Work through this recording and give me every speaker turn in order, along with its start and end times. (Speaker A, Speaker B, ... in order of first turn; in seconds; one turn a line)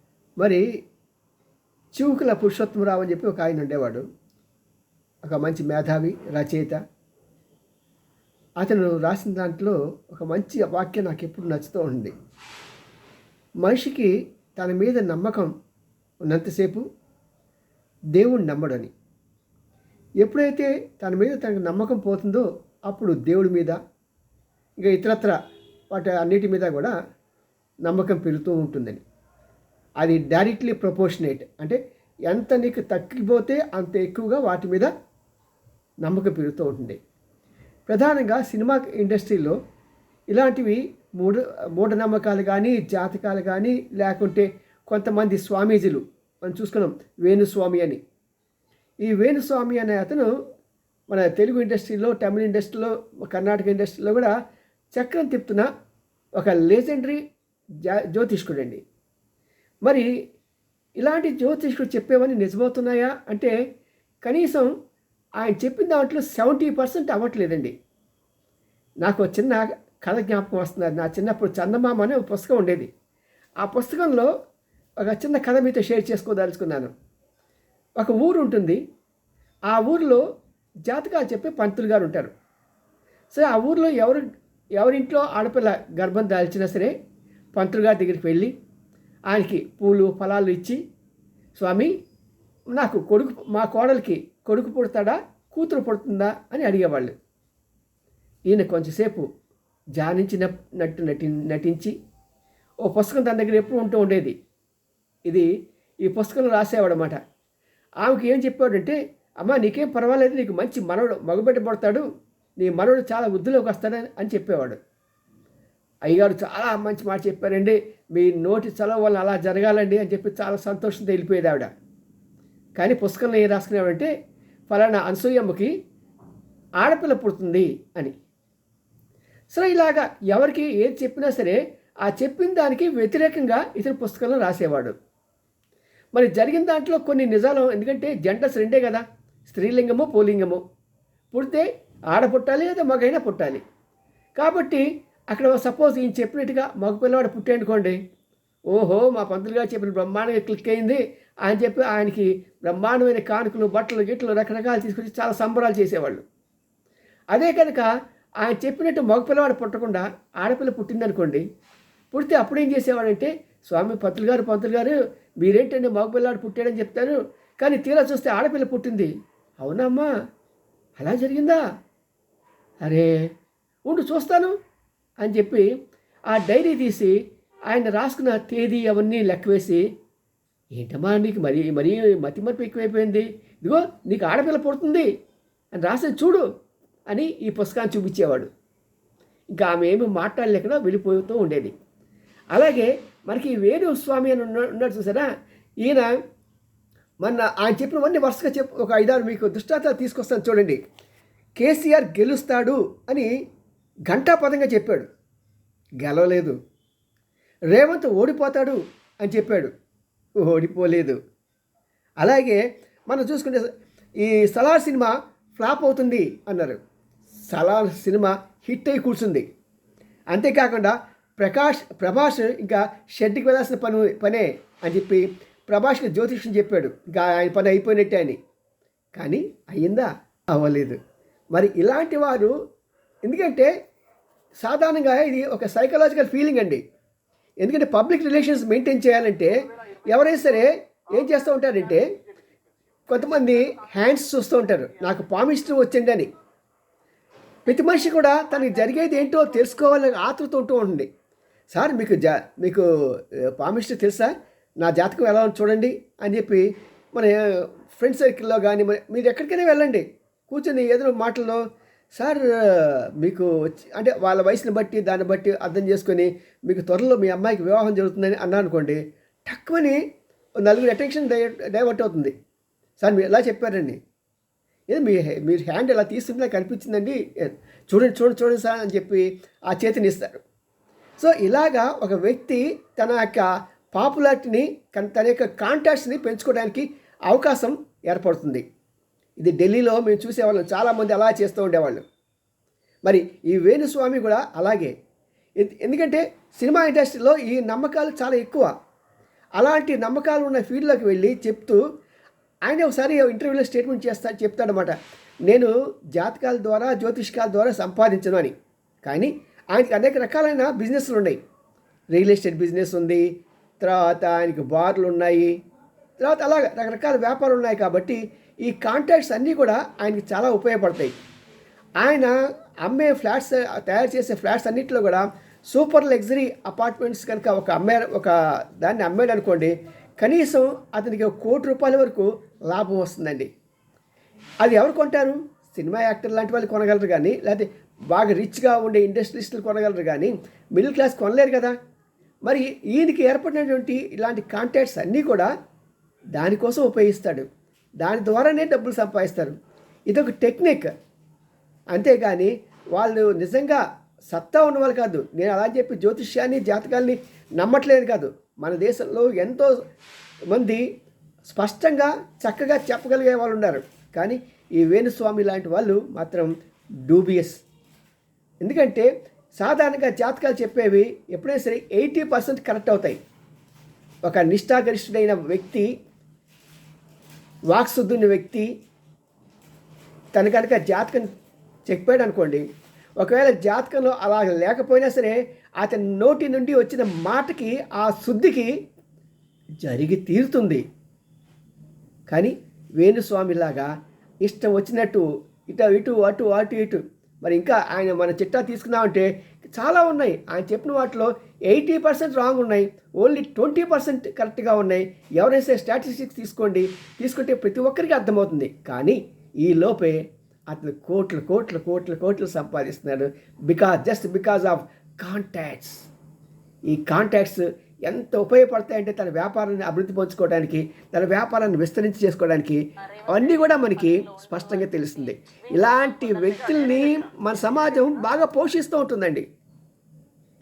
Speaker A: 0.4-0.6
Speaker A: 1.9-4.0
Speaker A: 5.2-6.8
Speaker A: 8.6-12.1
Speaker A: 13.6-15.5
Speaker A: 16.3-16.8
Speaker A: 18.1-18.9
Speaker A: 20.2-23.8
Speaker A: 24.8-25.4
Speaker A: 25.9-26.9
Speaker A: 27.9-29.0
Speaker A: 30.0-31.8
Speaker A: 32.3-34.9
Speaker A: 36.0-37.0
Speaker A: 37.9-39.6
Speaker A: 40.3-48.0
Speaker A: 49.0-50.3
Speaker A: 51.1-54.3
Speaker A: 55.0-55.7
Speaker A: 56.4-57.2
Speaker A: 57.9-58.8
Speaker A: 61.0-63.5
Speaker A: 64.2-64.7
Speaker A: 65.4-67.7
Speaker A: 69.0-72.9
Speaker A: 73.6-74.3
Speaker A: 75.0-76.9
Speaker A: 78.0-78.8
Speaker A: 79.7-80.2
Speaker A: 80.9-82.3
Speaker A: 83.3-84.2
Speaker A: 84.8-86.9
Speaker A: 87.6-88.5
Speaker A: 89.3-90.8
Speaker A: 91.6-91.9
Speaker A: 92.8-97.2
Speaker A: 98.5-99.3
Speaker A: 100.0-101.9
Speaker A: 102.8-104.4
Speaker A: 106.0-107.2
Speaker A: 108.0-112.0
Speaker A: 112.6-114.8
Speaker A: 116.1-121.7
Speaker A: 122.8-124.1
Speaker A: 124.7-125.7
Speaker A: 126.8-128.2
Speaker A: 129.5-134.9
Speaker A: 136.2-140.6
Speaker A: 141.3-143.6
Speaker A: 144.4-148.0
Speaker A: 148.7-156.2
Speaker A: 157.3-157.9
Speaker A: 158.4-161.4
Speaker A: 162.1-170.1
Speaker A: 171.0-171.6
Speaker A: 172.8-173.2
Speaker A: 173.9-174.6
Speaker A: 175.2-175.7
Speaker A: 176.3-177.2
Speaker A: 177.7-179.8
Speaker A: 180.8-185.1
Speaker A: 185.8-186.5
Speaker A: 187.1-188.5
Speaker A: 189.5-191.7
Speaker A: 192.5-195.3
Speaker A: 195.8-196.1
Speaker A: 197.2-200.8
Speaker A: 201.6-203.3
Speaker A: 204.1-205.1
Speaker A: 206.0-206.6
Speaker A: 207.7-209.7
Speaker A: 210.4-211.2
Speaker A: 212.2-213.7
Speaker A: 214.2-216.8
Speaker A: 217.5-219.5
Speaker A: 220.3-228.4
Speaker A: 229.2-231.0
Speaker A: 231.5-232.5
Speaker A: 233.3-233.7
Speaker A: 234.6-236.8
Speaker A: 237.6-242.1
Speaker A: 243.1-246.3
Speaker A: 247.7-251.1
Speaker A: 251.7-252.9
Speaker A: 253.6-257.4
Speaker A: 257.9-261.6
Speaker A: 262.2-270.0
Speaker A: 270.6-272.3
Speaker A: 273.0-274.0
Speaker A: 274.9-280.4
Speaker A: 281.2-288.6
Speaker A: 289.4-292.0
Speaker A: 293.1-294.9
Speaker A: 295.6-298.7
Speaker A: 299.6-301.8
Speaker A: 302.7-304.9
Speaker A: 305.5-311.4
Speaker A: 312.1-313.2
Speaker A: 313.8-315.5
Speaker A: 316.2-321.1
Speaker A: 322.0-322.3
Speaker A: 322.8-333.5
Speaker A: 334.6-341.8
Speaker A: 342.5-345.5
Speaker A: 346.4-347.5
Speaker A: 348.0-349.6
Speaker A: 350.1-350.9
Speaker A: 351.9-359.7
Speaker A: 360.5-360.8
Speaker A: 361.5-366.5
Speaker A: 367.1-367.6
Speaker A: 368.6-373.2
Speaker A: 374.2-375.9
Speaker A: 377.7-378.7
Speaker A: 380.4-381.3
Speaker A: 381.9-382.6
Speaker A: 383.2-388.7
Speaker A: 389.8-390.8
Speaker A: 392.3-393.9
Speaker A: 394.4-416.1
Speaker A: 416.9-429.5